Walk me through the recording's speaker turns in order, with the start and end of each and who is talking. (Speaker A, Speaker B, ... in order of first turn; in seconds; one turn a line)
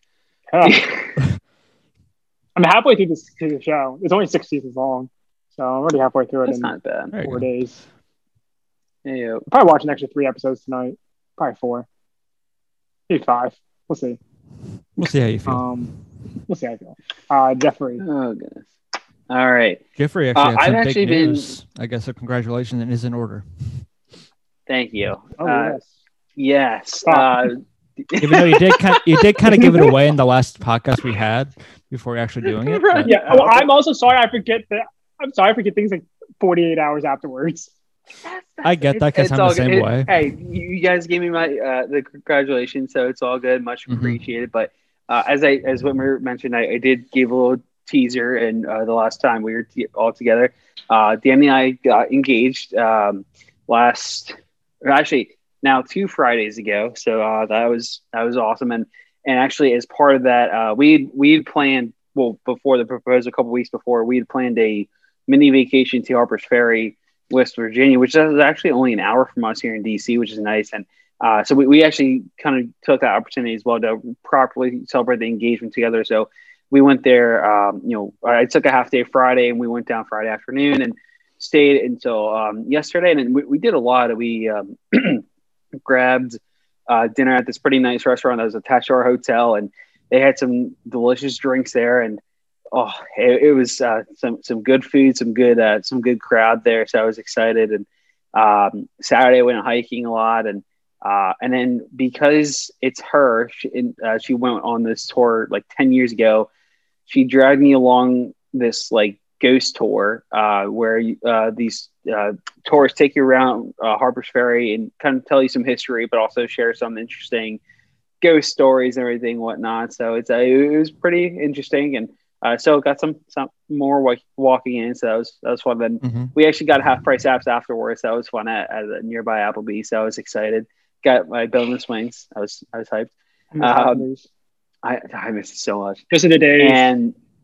Speaker A: 0.5-0.8
Speaker B: 0.6-1.1
Speaker A: 2.5-7.8
Speaker B: 6.4-7.1
Speaker C: 7.1-7.4
Speaker B: 9.0-9.4
Speaker A: 9.5-11.8
Speaker A: 13.1-14.2
Speaker C: 15.0-15.7
Speaker A: 15.5-15.9
Speaker A: 16.5-18.0
Speaker B: 18.0-18.6
Speaker B: 19.3-19.8
Speaker C: 20.0-23.8
Speaker B: 20.3-21.6
Speaker B: 24.7-25.8
Speaker A: 25.4-25.9
Speaker B: 26.4-29.9
Speaker A: 27.1-27.4
Speaker C: 28.2-33.1
Speaker B: 32.5-33.7
Speaker A: 33.0-37.7
Speaker B: 38.2-85.2
Speaker C: 38.6-40.1
Speaker C: 43.9-44.2
Speaker B: 85.8-92.2
Speaker B: 92.7-106.5
Speaker B: 107.0-117.6
Speaker B: 118.2-134.1
Speaker C: 126.0-126.3
Speaker A: 133.5-134.2
Speaker B: 134.8-136.0
Speaker A: 136.1-136.9
Speaker B: 136.6-137.2